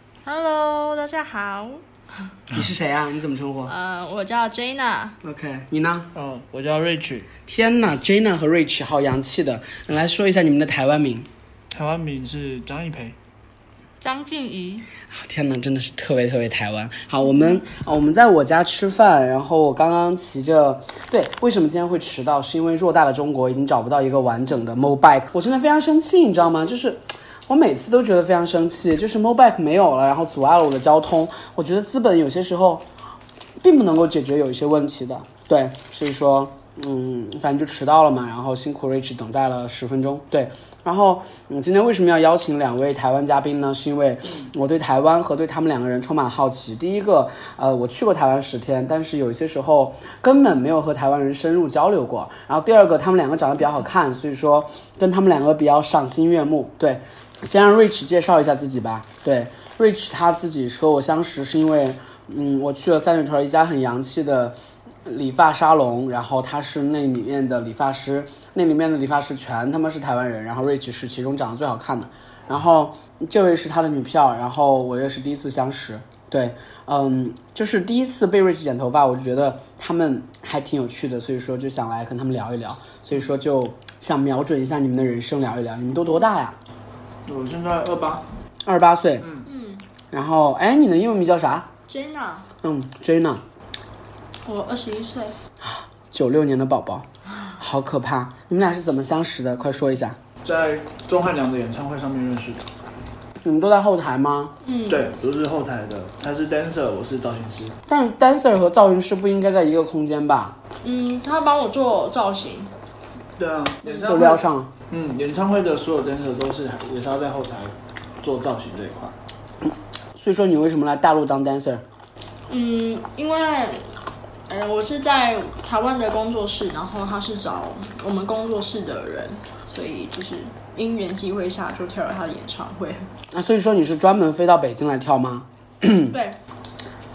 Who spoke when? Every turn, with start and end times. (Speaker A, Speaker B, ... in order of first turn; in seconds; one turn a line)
Speaker A: 0.2-1.8
Speaker B: 2.5-3.7
Speaker A: 3.7-5.2
Speaker B: 5.2-6.1
Speaker C: 6.2-7.3
Speaker B: 7.5-11.3
Speaker C: 11.7-13.2
Speaker A: 14.0-14.9
Speaker B: 15.1-32.9
Speaker B: 33.6-86.6
Speaker C: 87.3-88.2
Speaker B: 88.7-89.3
Speaker A: 89.5-89.8
Speaker B: 90.1-91.7
Speaker A: 91.9-92.5
Speaker B: 92.6-93.4
Speaker A: 94.5-95.4
Speaker B: 95.6-97.1
Speaker B: 97.6-100.2
Speaker C: 100.4-102.7
Speaker B: 103.4-104.5
Speaker A: 104.6-105.1
Speaker C: 104.9-107.8
Speaker B: 107.9-110.6
Speaker A: 110.8-112.7
Speaker C: 113.4-119.2
Speaker A: 113.8-114.3
Speaker B: 114.0-114.7
Speaker B: 120.2-121.8
Speaker A: 122.5-124.0
Speaker A: 124.5-133.1
Speaker B: 133.3-136.2
Speaker A: 136.1-136.4